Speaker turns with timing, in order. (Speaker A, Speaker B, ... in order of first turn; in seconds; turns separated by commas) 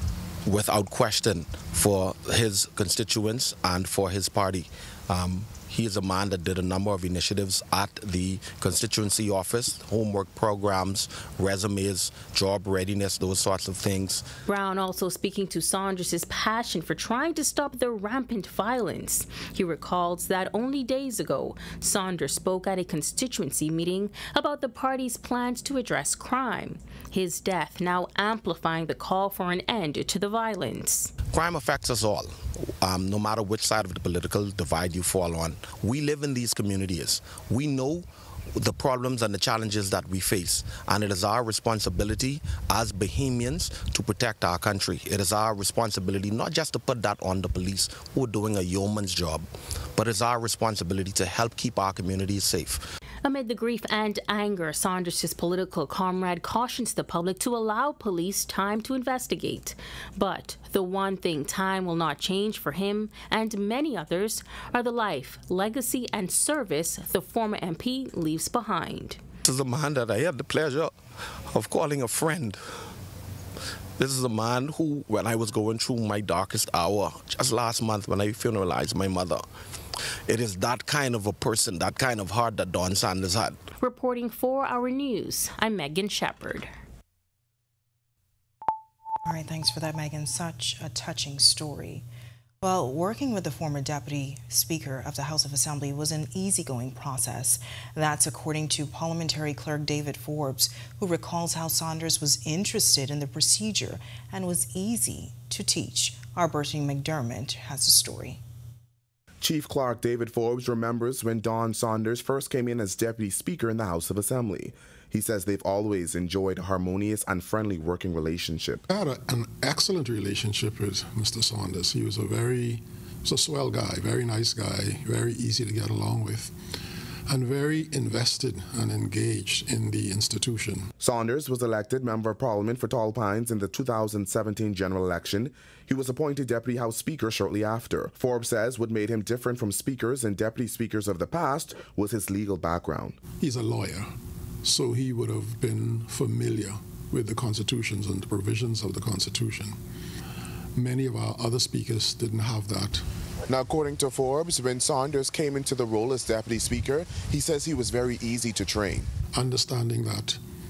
Speaker A: 0.4-14.3, Speaker B: 14.5-31.1, Speaker A: 31.3-52.9, Speaker B: 53.2-69.2, Speaker A: 69.4-71.0, Speaker A: 71.5-72.6, Speaker A: 74.0-79.5, Speaker A: 80.3-83.6, Speaker B: 83.8-86.7, Speaker C: 89.2-92.0, Speaker C: 92.6-108.4, Speaker D: 109.4-118.8, Speaker E: 118.9-126.5, Speaker E: 127.3-130.9, Speaker D: 131.0-143.2, Speaker E: 143.4-149.8, Speaker E: 150.7-153.0, Speaker D: 153.5-159.1, Speaker E: 159.3-160.4